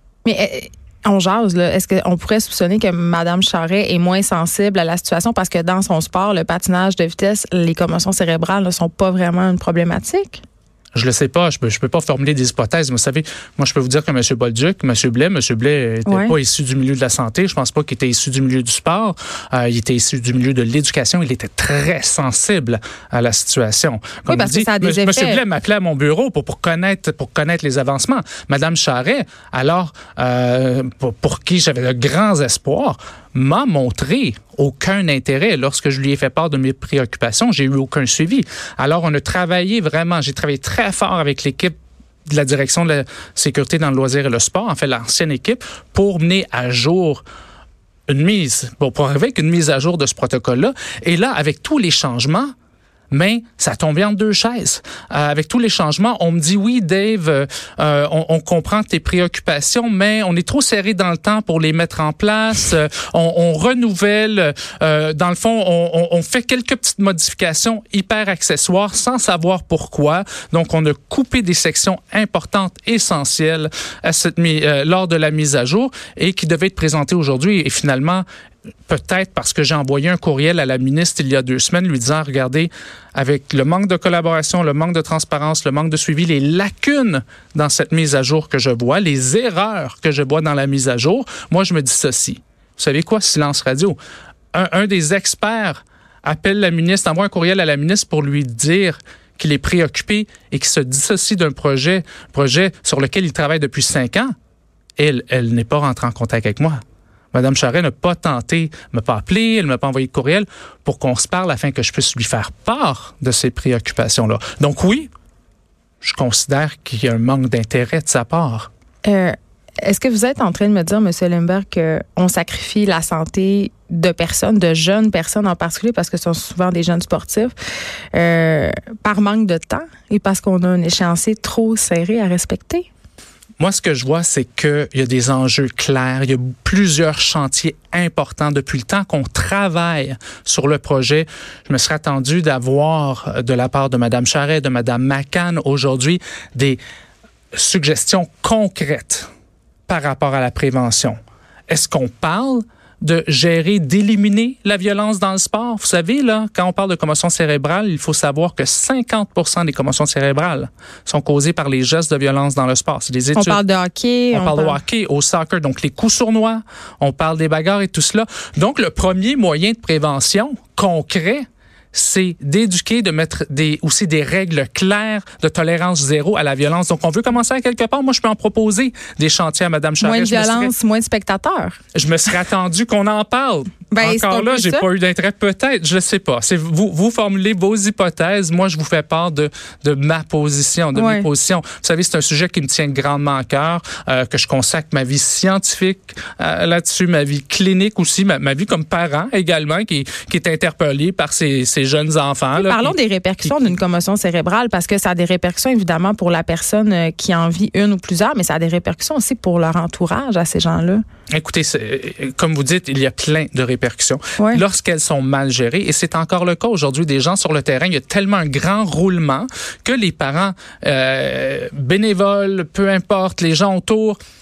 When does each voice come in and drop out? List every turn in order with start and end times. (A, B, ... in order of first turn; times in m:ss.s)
0:00.2-0:10.4 A
0:10.9-0:41.7 B
0:16.0-0:16.3 A
0:24.3-0:25.4 A
0:42.3-0:47.2 B
0:48.1-0:52.5 B
0:53.1-1:18.2 B
1:18.9-1:34.0 B
1:34.5-1:44.3 B
1:45.0-1:46.8 B
1:47.3-1:55.1 B
1:56.0-1:58.7 B
1:59.0-2:07.5 A
2:08.1-2:12.9 A
2:13.6-2:26.8 B
2:27.5-2:29.3 B
2:29.9-2:31.2 B
2:31.7-2:43.6 B
2:43.3-2:44.8 A
2:44.3-3:00.7 B
3:00.0-3:01.8 A
3:01.9-3:23.7 B
3:03.9-3:04.8 A
3:10.9-3:11.3 A
3:22.5-3:31.0 A
3:31.3-3:44.2 B
3:34.4-3:34.6 A